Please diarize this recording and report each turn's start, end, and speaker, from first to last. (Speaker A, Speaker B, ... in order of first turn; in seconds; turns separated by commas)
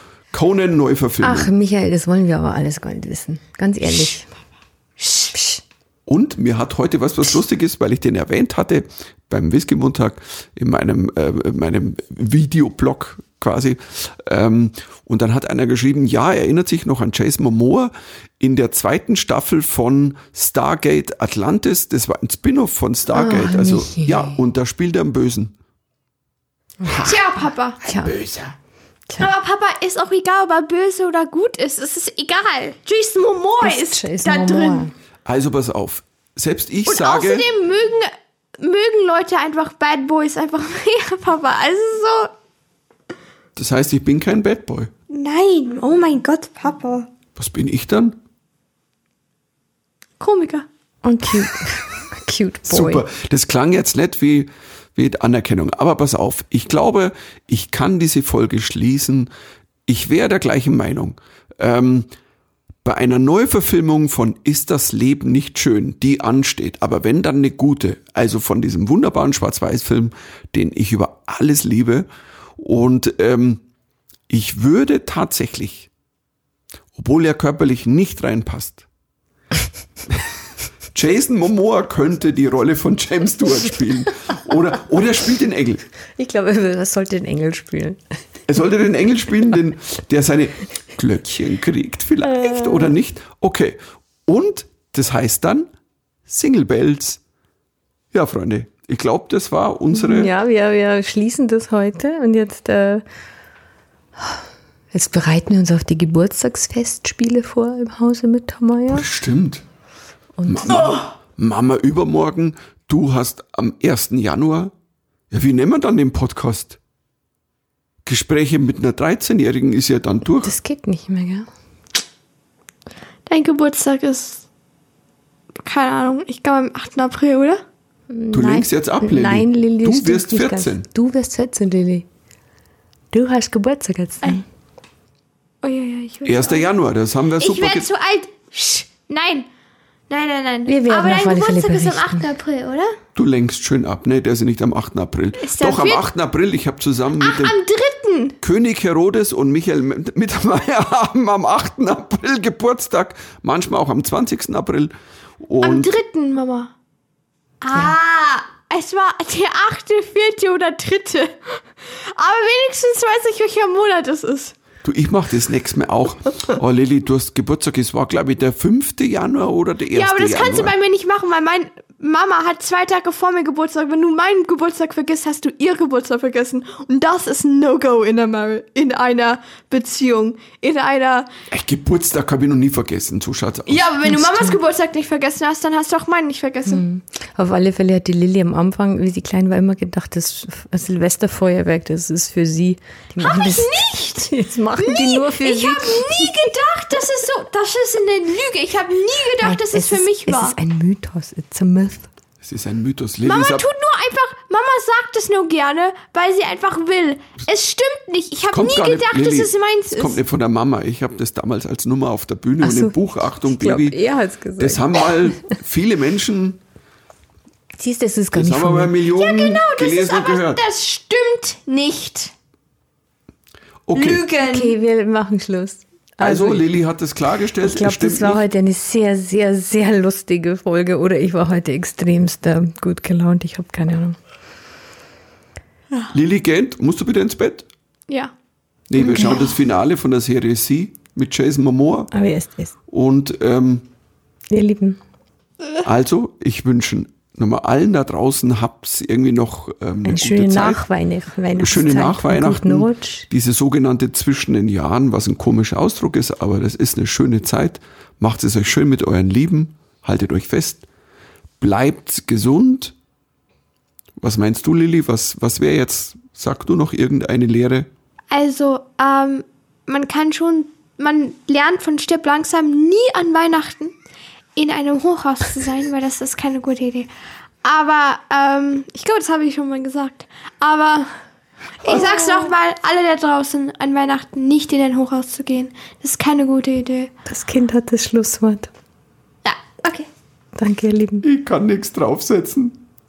Speaker A: 0.3-1.5, Speaker B: 1.2-4.3, Speaker C: 5.0-5.3, Speaker B: 5.3-5.6, Speaker A: 6.1-25.5, Speaker B: 23.1-24.4, Speaker B: 26.8-27.1, Speaker A: 26.9-27.1, Speaker C: 27.0-27.8, Speaker B: 27.8-28.2, Speaker A: 28.0-28.5, Speaker C: 29.2-34.9, Speaker B: 33.6-34.9, Speaker A: 35.2-37.5, Speaker C: 36.9-42.3, Speaker A: 43.5-44.9, Speaker C: 45.1-47.1, Speaker A: 47.3-48.2, Speaker C: 50.2-50.6, Speaker B: 51.0-53.0, Speaker A: 52.7-59.3, Speaker A: 59.9-62.1, Speaker A: 62.8-72.0, Speaker A: 72.6-73.6, Speaker A: 74.3-75.9, Speaker A: 77.0-78.8, Speaker A: 80.9-85.8, Speaker B: 86.2-88.0, Speaker A: 88.5-95.7, Speaker B: 92.2-92.9, Speaker A: 96.3-97.2, Speaker A: 98.1-100.3, Speaker B: 99.9-103.0, Speaker B: 104.2-109.1, Speaker A: 108.9-109.6, Speaker B: 110.4-111.0, Speaker A: 110.5-114.7, Speaker A: 115.3-116.8, Speaker A: 118.0-120.5, Speaker B: 120.4-121.5, Speaker C: 123.3-124.4, Speaker C: 125.6-127.6, Speaker B: 128.1-132.1, Speaker A: 128.3-130.9, Speaker B: 133.1-134.4, Speaker C: 135.6-136.7, Speaker A: 136.2-137.9, Speaker C: 137.4-139.5, Speaker C: 140.1-143.0, Speaker B: 140.7-142.3, Speaker A: 143.1-147.6, Speaker C: 145.4-146.0, Speaker C: 147.2-148.4, Speaker A: 148.4-155.9, Speaker C: 155.6-156.7, Speaker C: 157.6-164.5, Speaker A: 164.8-170.7, Speaker C: 169.9-181.3, Speaker A: 181.5-183.8, Speaker C: 183.7-186.8, Speaker B: 184.0-184.6, Speaker B: 186.7-196.5, Speaker C: 193.2-200.6, Speaker B: 199.4-202.1, Speaker A: 202.4-203.7, Speaker C: 203.2-210.2, Speaker A: 208.5-214.0, Speaker B: 212.6-215.3, Speaker A: 214.6-216.6, Speaker B: 217.7-218.9, Speaker A: 218.3-220.6, Speaker C: 219.1-222.3, Speaker A: 223.9-224.2, Speaker C: 223.9-224.7, Speaker B: 224.4-226.7, Speaker A: 226.2-228.4, Speaker B: 227.6-234.2, Speaker A: 236.1-237.7, Speaker A: 238.9-242.1, Speaker B: 239.0-239.6, Speaker B: 242.1-242.7, Speaker A: 242.9-243.9, Speaker B: 244.5-245.0, Speaker A: 245.8-250.8, Speaker B: 250.0-253.3, Speaker A: 251.6-260.8, Speaker A: 261.6-262.9, Speaker A: 264.2-267.9, Speaker C: 268.3-273.9, Speaker C: 274.6-277.1, Speaker C: 277.6-281.1, Speaker C: 281.8-287.1, Speaker B: 281.8-282.5, Speaker B: 287.2-288.7, Speaker C: 289.4-290.1, Speaker B: 290.6-291.2, Speaker A: 291.2-292.8